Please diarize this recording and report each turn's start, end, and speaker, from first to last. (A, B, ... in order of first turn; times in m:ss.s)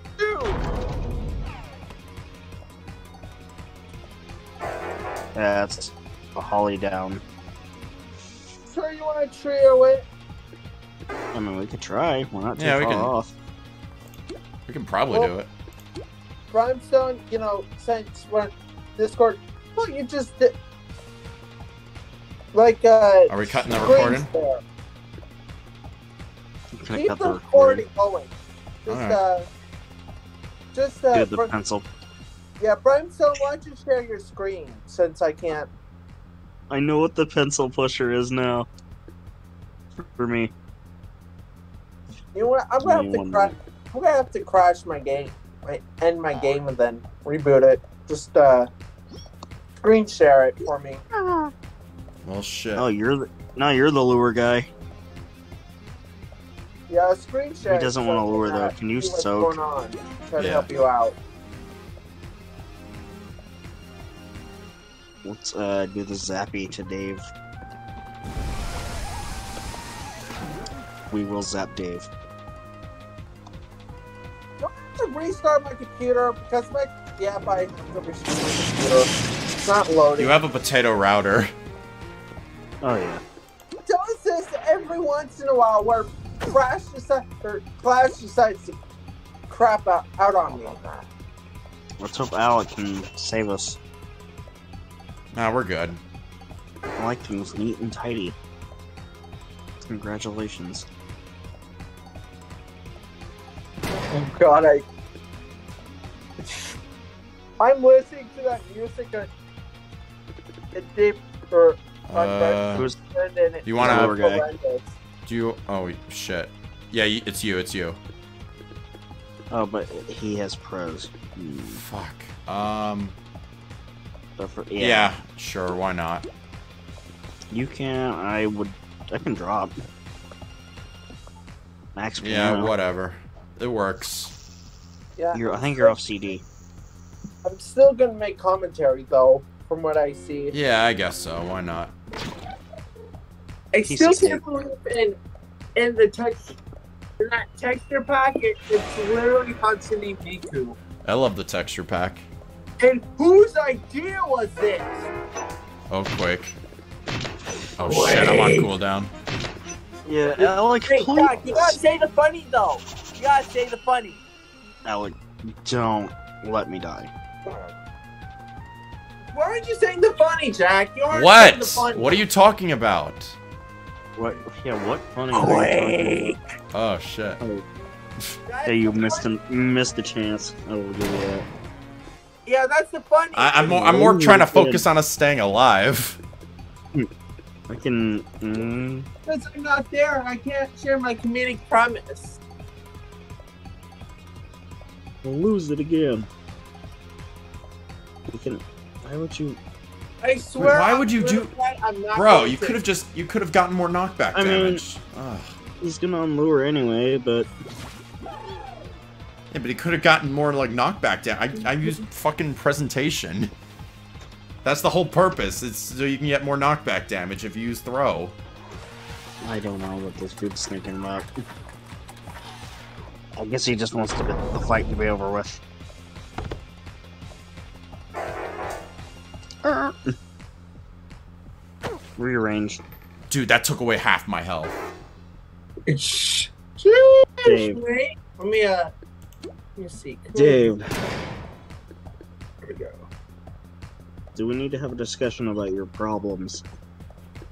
0:00.2-0:00.6 A
0:05.4-0:07.2 B
0:08.7-0:10.1 A
0:11.3-0:13.3 B
0:12.6-0:13.1 C
0:14.7-0:15.5 C
0:16.5-0:20.6 A
0:22.5-0:24.6 A
0:23.3-0:24.3 C
0:26.8-0:27.8 B
0:26.9-0:28.3 A
0:28.9-0:29.5 A
0:28.9-0:29.2 C
0:30.7-0:31.5 A
0:31.1-0:31.9 B
0:32.6-0:35.7 A
0:36.7-0:38.7 B
0:40.0-0:40.5 B
0:42.3-0:48.7 A
0:42.8-0:43.5 B
0:49.8-0:51.0 A
0:51.2-0:51.5 B
0:52.2-0:52.9 C
0:52.8-0:54.7 B
0:56.9-1:01.2 A
0:57.6-0:59.6 B
1:00.4-1:00.7 C
1:05.2-1:07.2 B
1:11.1-1:12.1 B
1:14.6-1:20.4 A
1:20.2-1:21.5 C
1:22.8-1:23.2 B
1:23.9-1:28.8 A
1:29.5-1:30.8 A
1:32.0-1:33.8 B
1:35.3-1:36.0 C
1:37.0-1:38.4 B
1:39.9-1:40.9 B
1:44.1-1:44.8 A
1:47.6-1:49.3 A
1:50.7-1:54.9 A
1:52.1-1:52.9 C
1:53.6-1:54.2 C
1:53.8-1:54.4 B
1:55.2-1:58.0 C
1:59.5-2:01.8 B
2:01.8-2:03.2 C
2:04.4-2:05.1 B
2:04.8-2:06.3 C
2:07.5-2:09.8 B
2:12.0-2:12.7 B
2:12.2-2:14.3 C
2:15.2-2:15.9 A
2:15.3-2:16.4 B
2:17.4-2:20.6 A
2:20.5-2:21.9 C
2:23.7-2:25.2 A
2:23.8-2:24.4 B
2:25.8-2:26.6 A
2:27.2-2:30.8 A
2:31.0-2:32.3 C
2:32.8-2:35.1 A
2:35.9-2:36.6 C
2:37.8-2:39.1 C
2:37.8-2:38.7 A
2:40.0-2:41.8 B
2:40.4-2:44.2 A
2:44.8-2:47.1 B
2:49.3-2:52.2 A
2:51.1-2:53.4 C
2:54.2-2:56.4 B
2:55.3-2:56.4 A
2:56.7-2:57.4 C
2:57.4-2:57.6 B
2:58.5-2:59.3 A
2:58.7-3:01.5 B
3:02.5-3:04.0 A
3:03.3-3:06.2 C
3:03.7-3:04.8 B
3:07.7-3:09.1 B
3:09.3-3:12.4 A
3:15.2-3:16.3 B
3:18.3-3:19.6 B
3:20.2-3:22.8 A
3:20.6-3:21.5 C
3:22.1-3:25.6 C
3:24.3-3:24.8 B
3:25.8-3:27.5 B
3:29.5-3:33.5 C
3:34.6-3:38.4 C
3:39.4-3:41.3 B
3:43.4-3:45.6 B
3:49.6-3:50.2 B
3:52.2-3:52.8 B
3:53.3-3:54.8 C
3:55.9-3:58.9 A
3:57.4-3:57.8 B
3:59.8-4:00.9 A
4:00.3-4:00.9 B
4:02.6-4:03.0 A
4:04.4-4:06.6 B